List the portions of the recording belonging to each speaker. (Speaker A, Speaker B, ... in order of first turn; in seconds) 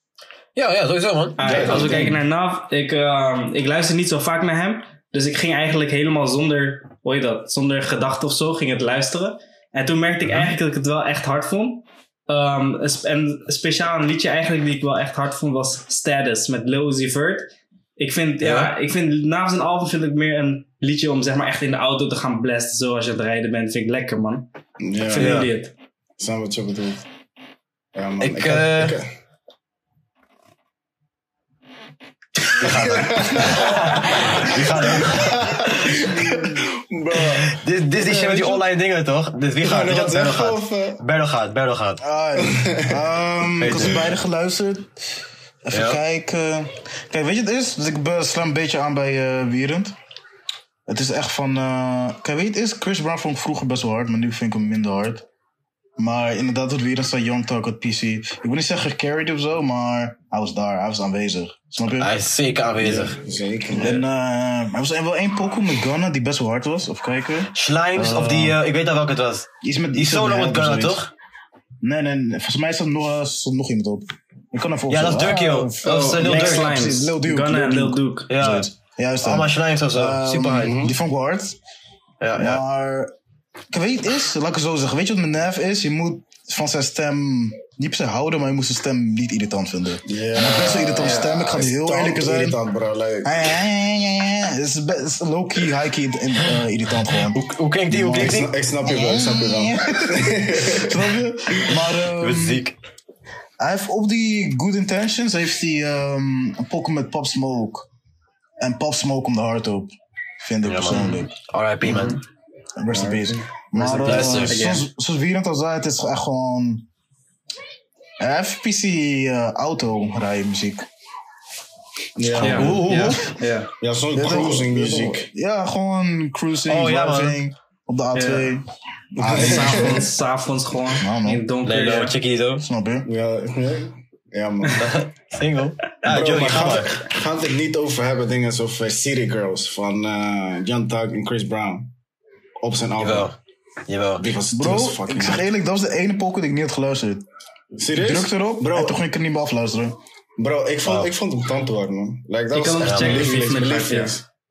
Speaker A: 0.6-2.1, 18.4-18.7, 25.1-25.5, 28.2-29.0, 32.5-36.1, 37.2-42.0, 43.6-44.1, 45.7-46.0, 62.0-63.2, 67.5-71.1, 74.9-76.8, 78.3-80.8, 82.2-82.6, 97.3-98.5, 102.2-102.8, 110.7-112.2, 114.0-114.7, 126.7-127.4, 131.6-132.6, 134.8-137.0, 143.0-143.4, 143.9-144.3, 150.8-151.1, 152.8-153.3
Speaker B: 1.4-25.7, 75.8-78.3, 114.5-114.8, 122.4-123.7, 128.1-128.6, 129.3-132.2, 152.5-154.2
Speaker C: 1.4-2.2, 24.8-25.4, 26.2-27.1, 27.9-29.1, 32.5-38.7, 39.6-41.0, 42.4-43.0, 43.7-44.0, 62.8-64.0, 80.6-80.9, 90.1-93.5, 98.1-101.6, 112.9-114.7, 122.2-123.1, 123.8-125.3, 129.2-130.1, 133.0-135.0, 136.0-141.9, 142.6-143.3, 144.2-145.4, 147.8-148.9, 150.4-154.2
Speaker D: 42.0-44.9, 45.6-49.9, 50.9-55.2, 56.0-62.1, 63.8-68.6, 69.6-71.0, 71.8-81.6, 82.4-83.1, 83.7-92.6, 93.2-102.6, 103.6-107.9, 108.6-111.3, 111.8-112.2, 112.8-116.8, 118.2-120.9, 122.4-123.3, 124.2-128.7, 129.2-130.1, 130.9-131.4, 132.6-133.1, 144.5-147.2, 147.9-150.0